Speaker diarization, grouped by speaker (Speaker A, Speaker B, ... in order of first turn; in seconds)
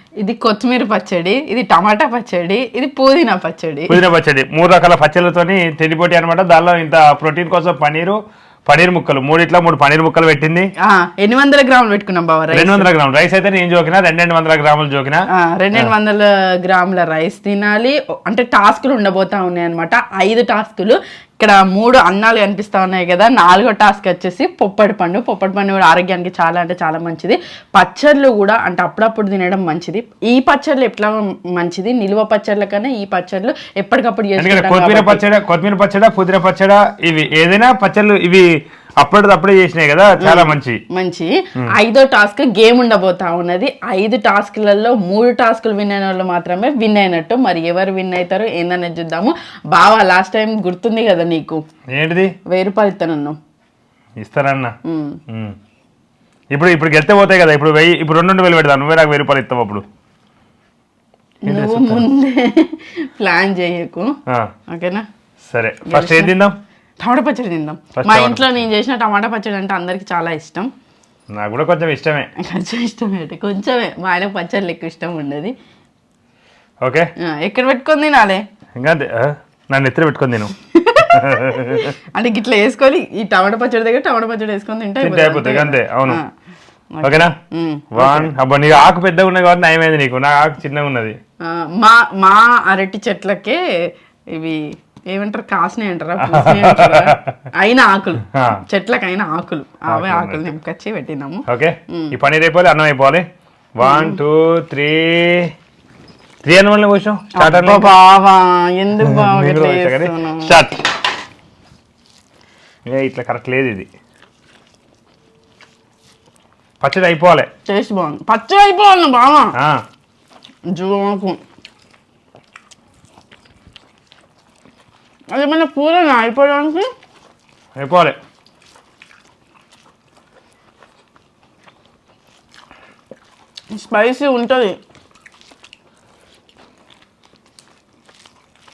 Speaker A: 0.2-4.0, 10.8-12.9, 15.3-35.2, 40.2-51.6, 52.5-53.4, 54.8-55.2, 61.4-64.1, 64.7-65.1, 65.9-66.3, 67.0-70.7, 72.4-75.5, 77.2-78.4, 80.7-86.3, 87.0-88.3, 91.4-93.6, 94.3-102.1, 103.8-104.2, 107.3-110.6, 117.7-119.5, 120.7-121.4, 125.3-126.9, 133.7-134.8
Speaker B: 3.9-10.7, 12.5-15.9, 34.4-38.5, 39.0-40.8, 51.9-52.3, 54.2-54.8, 55.3-55.5, 56.5-59.8, 61.5-62.0, 65.5-66.6, 68.0-68.5, 71.3-72.3, 76.8-77.1, 78.8-80.5, 81.1-81.9, 85.0-86.2, 87.0-87.3, 87.9-91.2, 96.2-97.3, 98.3-98.6, 99.9-100.5, 101.5-105.5, 106.4-107.9, 109.0-110.8, 112.8-113.9, 116.8-117.5, 127.8-128.2